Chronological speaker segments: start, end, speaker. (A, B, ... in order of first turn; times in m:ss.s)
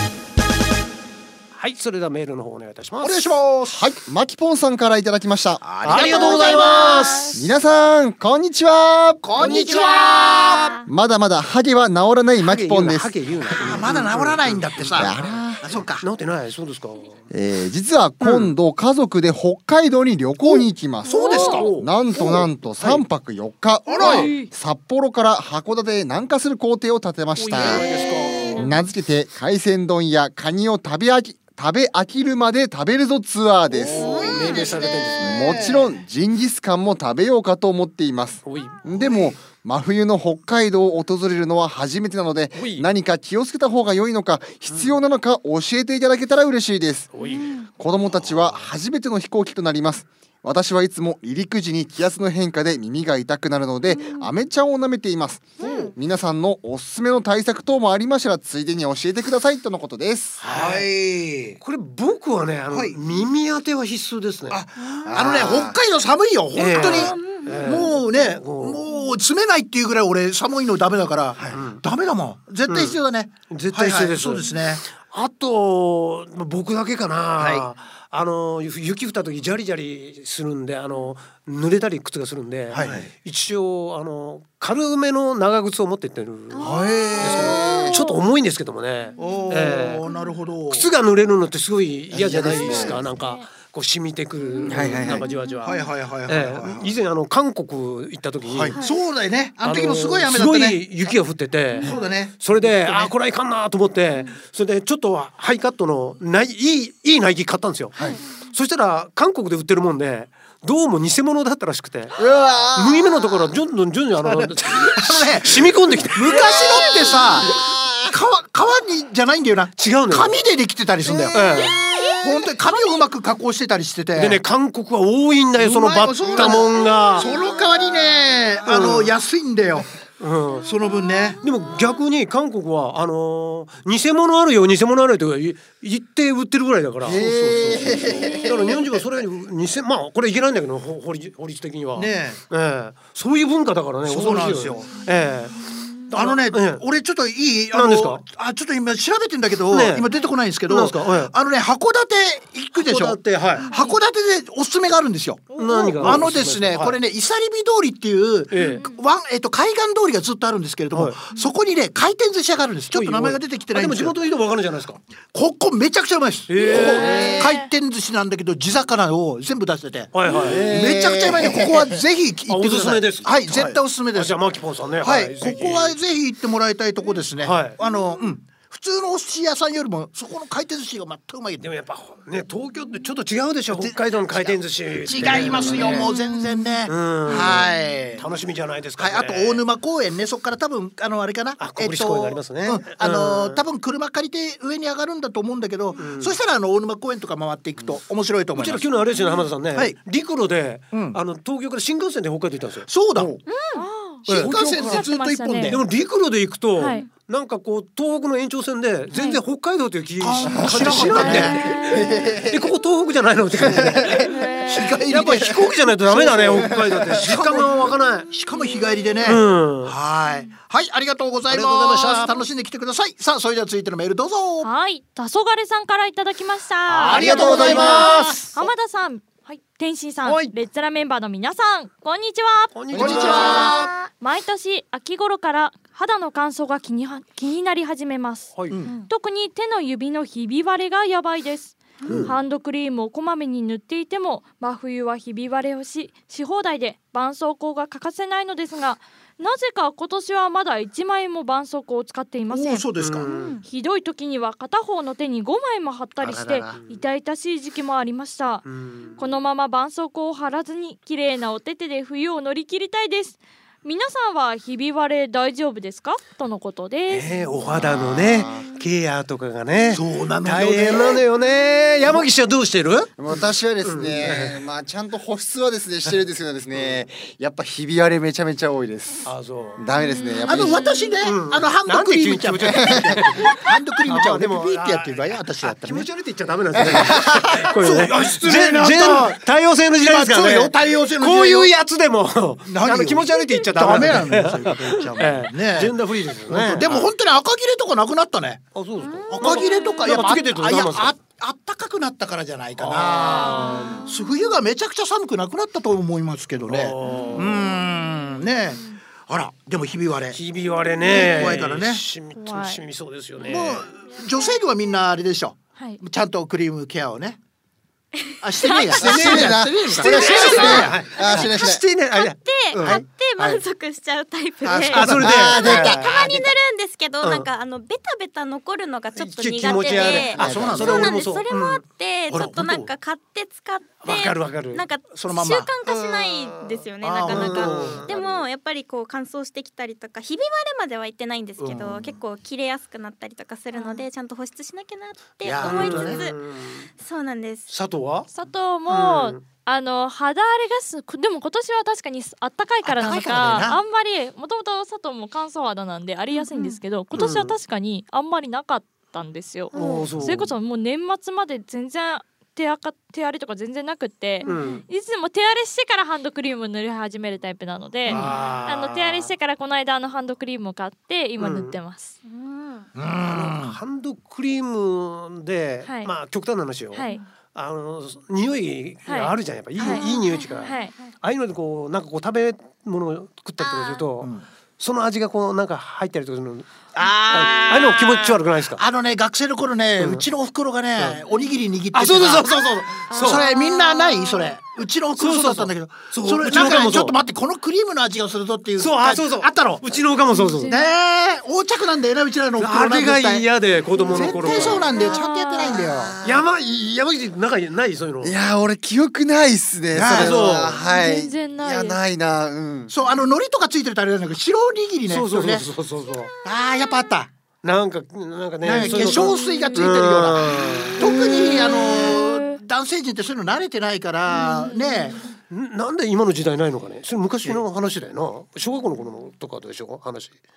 0:01.5-0:03.4 A
0:03.0-0:03.8 B
0:03.7-0:06.5 C
0:05.6-0:07.3 B
0:05.8-0:07.4 A
0:06.0-0:07.4 D
0:07.3-0:09.2 C
0:09.2-0:10.8 B
0:09.4-0:10.3 A
0:09.4-0:10.9 D
0:10.8-0:13.8 C
0:12.4-0:15.4 A
0:13.5-0:16.0 B
0:15.0-0:15.7 C
0:16.0-0:17.2 A
0:17.3-0:28.0 C
0:18.2-0:18.5 A
0:20.5-0:23.0 A
0:21.1-0:21.7 E
0:21.1-0:22.4 B
0:23.9-0:24.3 B
0:23.9-0:24.5 E
0:24.0-0:24.3 A
0:27.4-0:28.7 A
0:28.5-0:34.6 C
0:33.7-0:35.9 B
0:33.9-0:35.6 A
0:33.9-0:35.1 D
0:35.2-0:47.1 C
0:38.4-0:39.0 A
0:42.5-0:42.9 A
0:47.1-0:47.6 A
0:47.2-0:47.7 D
0:47.7-1:00.4 C
0:48.2-0:48.6 A
0:53.9-0:54.3 D
0:55.6-0:55.9 D
0:55.6-0:55.9 A
1:00.4-1:01.6 B
1:00.4-1:00.9 A
1:01.6-1:04.6 A
1:02.7-1:03.0 B
1:04.5-1:14.8 B
1:05.1-1:05.8 C
1:06.5-1:08.8 A
1:06.7-1:07.8 D
1:11.5-1:11.8 A
1:12.6-1:30.0 A
1:17.4-1:17.7 B
1:22.7-1:23.1 B
1:22.8-1:23.1 C
1:26.5-1:27.9 D
1:26.6-1:28.0 C
1:27.8-1:28.2 E
1:29.2-1:30.9 B
1:30.7-1:38.8 A
1:32.1-1:33.0 C
1:32.7-1:33.4 E
1:34.6-1:35.3 C
1:34.8-1:35.7 E
1:35.6-1:37.0 B
1:38.4-1:41.1 B
1:39.6-1:47.9 A
1:41.8-1:43.1 B
1:48.5-1:52.2 A
1:52.2-1:53.5 C
1:52.7-1:56.6 A
1:54.4-2:04.4 B
1:56.3-1:58.2 C
1:59.8-2:00.4 A
2:01.3-2:01.8 A
2:01.4-2:03.0 D
2:04.1-2:07.3 A
2:05.6-2:09.9 B
2:08.6-2:09.1 A
2:10.2-2:10.7 A
2:10.6-2:11.4 B
2:10.9-2:11.9 D
2:11.4-2:26.8 A
2:17.0-2:18.8 C
2:21.9-2:22.4 B
2:24.0-2:25.0 B
2:26.1-2:44.2 B
2:27.7-2:28.2 A
2:29.7-2:30.1 A
2:30.7-2:31.3 A
2:32.7-2:33.7 A
2:33.6-2:33.9 D
2:35.6-2:37.0 A
2:38.5-2:38.8 A
2:38.6-2:38.9 E
2:40.9-2:41.2 A
2:42.9-2:45.0 A
2:45.3-2:54.4 B
2:46.5-2:47.5 A
2:46.8-2:47.4 C
2:47.0-2:47.7 E
2:50.1-2:50.7 A
2:50.4-2:52.0 C
2:52.5-2:56.0 A
2:55.0-3:01.7 B
2:57.4-2:57.8 A
3:01.6-3:06.1 A
3:03.7-3:08.3 B
3:06.9-3:09.6 A
3:09.0-3:18.9 B
3:11.6-3:13.6 A
3:15.9-3:16.4 A
3:18.5-3:22.9 A
3:19.7-3:20.0 B
3:20.9-3:21.2 B
3:22.9-3:23.4 B
3:23.5-3:23.8 D
3:23.7-3:25.8 E
3:24.2-3:25.8 B
3:24.3-3:25.0 A
3:24.4-3:24.7 C
3:25.6-3:34.3 A
3:26.8-3:27.0 E
3:29.1-3:29.4 E
3:30.2-3:31.7 B
3:30.4-3:32.7 C
3:31.0-3:32.0 E
3:33.6-3:34.5 C
3:34.3-3:35.0 E
3:34.7-3:35.5 B
3:35.0-3:38.3 A
3:36.1-3:44.7 B
3:36.2-3:37.6 C
3:39.2-3:39.9 A
3:41.5-3:42.4 A
3:44.6-3:53.7 E
3:46.9-3:48.6 A
3:47.0-3:48.4 B
3:47.1-3:48.2 C
3:50.2-3:50.6 A
3:52.7-3:53.8 A
3:52.9-3:54.0 B
3:52.9-3:53.4 C
3:53.4-3:54.0 D
3:54.2-3:58.5 E
3:58.5-3:58.8 A
3:59.1-4:12.8 E
4:02.0-4:02.3 B
4:12.5-4:13.3 B
4:13.0-4:13.6 A
4:13.2-4:13.6 D
4:13.6-4:18.6 E
4:16.2-4:16.8 C
4:16.7-4:17.0 A
4:18.6-4:19.2 A
4:19.2-4:27.5 E
4:27.1-4:34.6 A
4:27.7-4:28.8 C
4:29.9-4:31.2 B
4:33.2-4:40.8 C
4:39.2-4:39.8 A
4:40.0-4:41.1 E
4:40.4-4:46.1 B
4:41.2-4:57.1 A
4:42.7-4:43.1 C
4:46.8-4:47.7 C
4:47.8-4:49.4 B
4:50.0-4:51.7 B
4:52.6-4:58.7 B
4:58.7-5:01.1 A
4:59.0-5:00.1 D
4:59.3-5:10.4 B
5:02.8-5:03.9 A
5:03.4-5:04.1 E
5:03.4-5:04.3 D
5:06.6-5:07.8 A
5:07.0-5:07.5 E
5:07.1-5:07.4 D
5:10.3-5:13.9 A
5:11.1-5:12.0 B
5:11.1-5:11.5 E
5:12.3-5:12.8 E
5:13.4-5:17.4 B
5:18.2-5:19.4 D
5:18.4-5:21.3 B
5:19.0-5:21.8 C
5:19.0-5:23.0 A
5:20.1-5:20.9 D
5:22.1-5:46.4 D
5:22.7-5:23.0 B
5:24.6-5:25.8 B
5:24.8-5:26.0 A
5:25.2-5:26.6 C
5:27.2-5:27.5 A
5:29.1-5:31.8 A
5:29.8-5:32.9 B
5:30.4-5:31.1 C
5:34.0-5:34.8 A
5:35.1-5:36.0 B
5:36.4-5:36.7 A
5:37.0-5:38.1 B
5:37.2-5:38.4 A
5:41.6-5:42.2 B
5:43.7-5:44.0 E
5:45.4-5:46.3 B
5:45.6-5:46.9 A
5:46.9-5:47.7 D
5:47.7-5:48.3 A
5:48.3-6:12.2 E
5:48.9-5:49.4 A
5:52.8-5:53.8 B
5:56.3-5:56.8 D
5:57.1-5:57.6 A
5:59.7-6:00.5 A
5:59.7-6:00.1 D
6:04.4-6:04.8 A
6:04.4-6:04.8 D
6:08.0-6:09.3 A
6:08.1-6:08.4 B
6:11.4-6:11.8 A
6:12.2-6:12.9 D
6:12.9-6:13.8 B
6:13.2-6:26.8 A
6:15.8-6:16.1 E
6:16.9-6:17.2 E
6:19.1-6:20.9 E
6:19.8-6:21.1 D
6:23.6-6:24.0 D
6:24.2-6:24.4 B
6:26.9-6:40.0 B
6:27.3-6:28.8 A
6:30.0-6:30.2 A
6:31.9-6:33.5 A
6:33.1-6:34.5 D
6:35.2-6:37.2 A
6:38.8-6:40.8 A
6:40.3-6:40.9 E
6:40.6-6:43.5 B
6:42.6-6:44.9 A
6:44.0-6:46.2 B
6:44.2-6:45.8 E
6:45.8-6:46.8 C
6:46.2-6:48.4 A
6:48.2-6:52.9 C
6:49.9-6:50.7 B
6:50.1-6:50.8 A
6:50.8-6:52.0 E
6:52.9-6:55.7 B
6:55.1-6:56.3 A
6:56.4-6:57.3 B
6:57.6-7:01.0 A
6:58.6-7:05.2 B
7:01.4-7:02.6 E
7:04.4-7:04.8 D
7:05.5-7:10.4 A